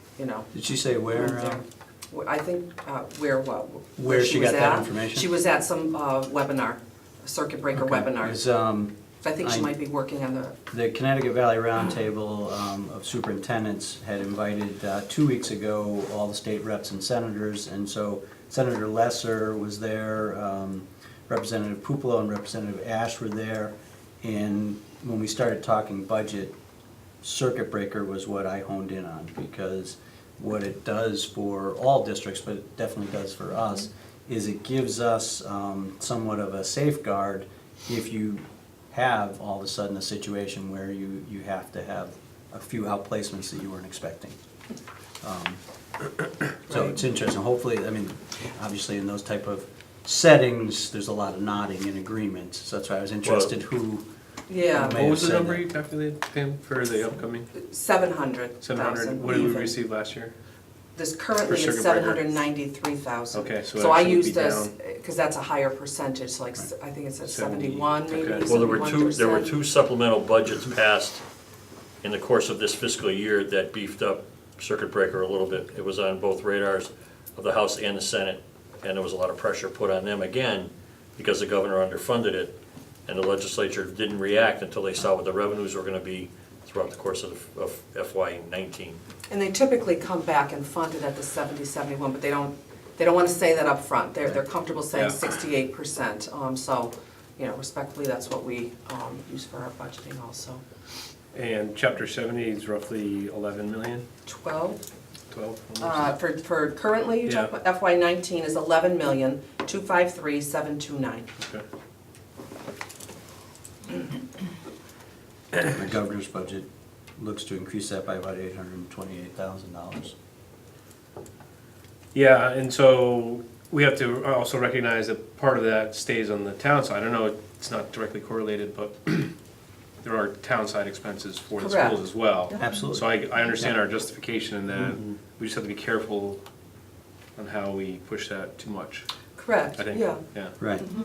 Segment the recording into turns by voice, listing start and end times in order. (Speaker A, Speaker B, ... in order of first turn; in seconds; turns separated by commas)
Speaker A: 0.2-0.5, Speaker B: 0.5-1.6, Speaker A: 1.1-8.4, Speaker B: 4.0-5.3, Speaker B: 7.7-9.7, Speaker A: 9.2-10.6, Speaker B: 10.7-26.6, Speaker B: 27.2-44.4, Speaker B: 45.2-45.6, Speaker B: 46.7-54.0, Speaker A: 46.7-47.0, Speaker C: 53.2-53.5, Speaker A: 54.5-55.0, Speaker B: 54.7-55.6, Speaker D: 54.8-57.5, Speaker A: 57.5-59.8, Speaker D: 58.6-60.3, Speaker A: 61.0-69.5, Speaker D: 61.5-62.4, Speaker D: 63.3-64.7, Speaker D: 67.2-68.5, Speaker C: 68.4-71.2, Speaker C: 72.0-82.5, Speaker C: 83.1-89.0, Speaker A: 89.3-100.6, Speaker D: 101.3-104.0, Speaker A: 104.3-104.8, Speaker D: 105.3-106.1, Speaker A: 105.8-111.3, Speaker D: 107.3-107.5, Speaker B: 115.7-116.7, Speaker B: 117.2-120.2, Speaker D: 122.1-129.3, Speaker D: 130.0-136.4, Speaker A: 131.6-132.7, Speaker B: 132.6-133.7, Speaker D: 137.4-139.1, Speaker A: 139.4-140.2, Speaker D: 139.8-140.6, Speaker B: 140.6-140.9